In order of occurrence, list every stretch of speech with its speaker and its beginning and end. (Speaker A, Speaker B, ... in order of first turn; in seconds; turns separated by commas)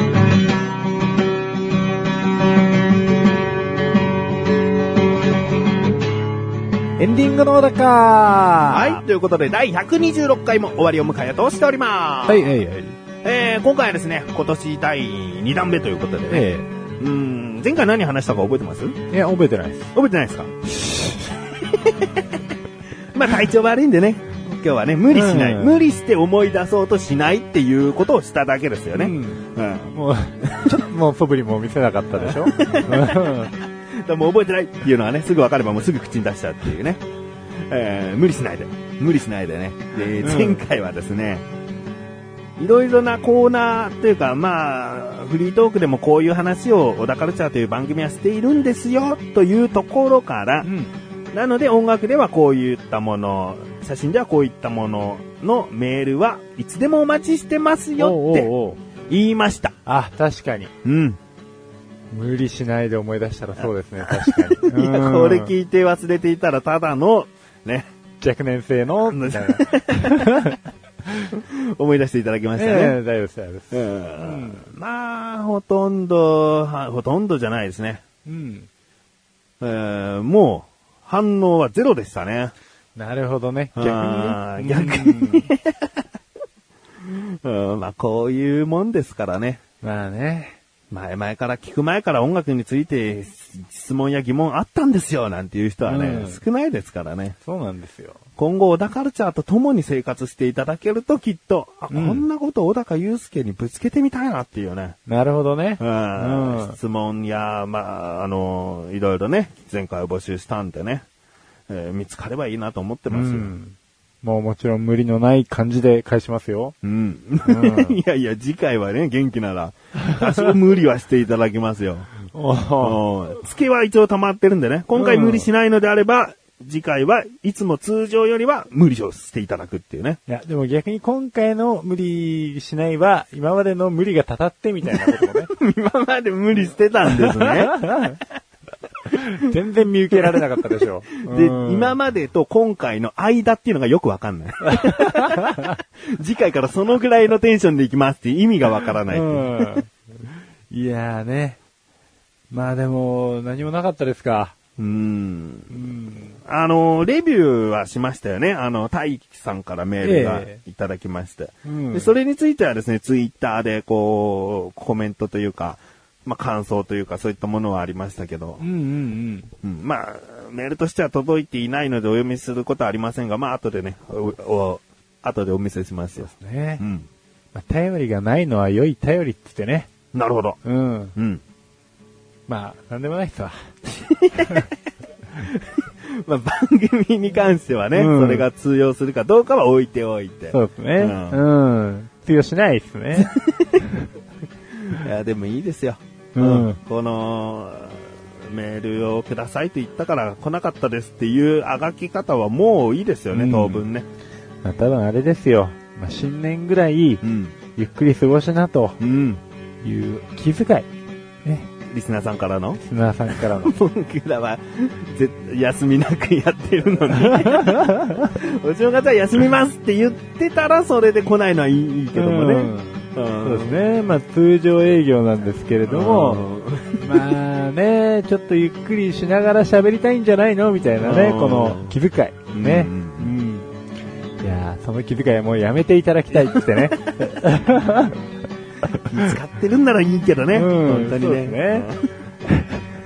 Speaker A: 7.0-9.0, Speaker B: 8.7-12.5, Speaker A: 12.3-13.0, Speaker B: 13.2-19.0, Speaker A: 16.3-16.7, Speaker A: 19.1-19.9, Speaker B: 19.9-20.5, Speaker A: 20.8-21.2, Speaker B: 21.6-22.4, Speaker B: 23.1-30.8, Speaker A: 25.1-25.8, Speaker A: 28.9-33.5, Speaker B: 32.2-33.2, Speaker B: 33.9-41.5, Speaker A: 40.1-40.6, Speaker B: 42.6-50.7, Speaker A: 50.6-50.9, Speaker B: 51.3-58.5, Speaker A: 58.0-58.8, Speaker B: 59.1-59.8, Speaker A: 59.9-60.7, Speaker B: 60.8-61.2, Speaker A: 62.1-65.5, Speaker B: 63.6-67.9, Speaker A: 68.2-71.3, Speaker B: 69.1-70.3, Speaker B: 71.3-73.0, Speaker A: 72.6-74.7, Speaker B: 73.7-78.0, Speaker A: 78.2-78.7, Speaker B: 79.6-82.5, Speaker A: 83.0-85.5, Speaker B: 83.8-86.0, Speaker B: 87.0-89.6, Speaker A: 89.8-90.6, Speaker B: 90.9-97.4, Speaker A: 95.9-96.4, Speaker A: 97.5-98.2, Speaker B: 98.4-105.0, Speaker A: 101.9-102.2, Speaker A: 105.1-106.8, Speaker B: 105.8-111.0, Speaker B: 111.7-113.5, Speaker A: 113.1-116.8, Speaker B: 116.8-122.1, Speaker A: 117.4-118.0, Speaker A: 120.0-120.5, Speaker A: 122.3-123.0, Speaker B: 122.8-130.2, Speaker A: 125.0-125.5, Speaker A: 130.3-135.5, Speaker B: 135.5-138.1, Speaker A: 137.1-138.2, Speaker A: 139.1-141.9, Speaker B: 141.2-149.7, Speaker A: 144.7-145.8, Speaker A: 149.1-149.9, Speaker A: 150.7-151.6, Speaker A: 152.5-154.6, Speaker B: 154.8-155.8, Speaker A: 155.7-156.4, Speaker B: 156.4-168.6, Speaker A: 160.0-160.6, Speaker A: 161.7-162.1, Speaker A: 168.6-169.5, Speaker B: 169.6-177.1, Speaker A: 176.3-176.8, Speaker A: 177.5-179.9, Speaker B: 180.1-180.6, Speaker A: 180.6-181.2, Speaker B: 181.2-181.4, Speaker A: 182.5-183.7, Speaker B: 183.9-184.7, Speaker B: 185.3-191.4, Speaker A: 187.9-188.5, Speaker A: 190.5-193.3, Speaker B: 193.2-193.9, Speaker B: 194.7-204.1, Speaker A: 196.3-196.8, Speaker A: 203.3-203.8, Speaker A: 204.6-207.2, Speaker B: 207.2-207.6, Speaker A: 207.8-209.0, Speaker B: 209.0-209.4, Speaker A: 209.8-210.9, Speaker A: 211.4-211.7, Speaker B: 211.9-223.8, Speaker A: 212.8-213.8, Speaker A: 217.1-218.3, Speaker A: 222.1-226.4, Speaker B: 225.8-227.2, Speaker A: 227.0-233.7, Speaker B: 231.0-231.9, Speaker B: 232.5-233.3, Speaker A: 234.4-238.2, Speaker A: 238.8-239.3, Speaker B: 239.1-242.1, Speaker A: 240.5-241.9, Speaker A: 242.4-242.8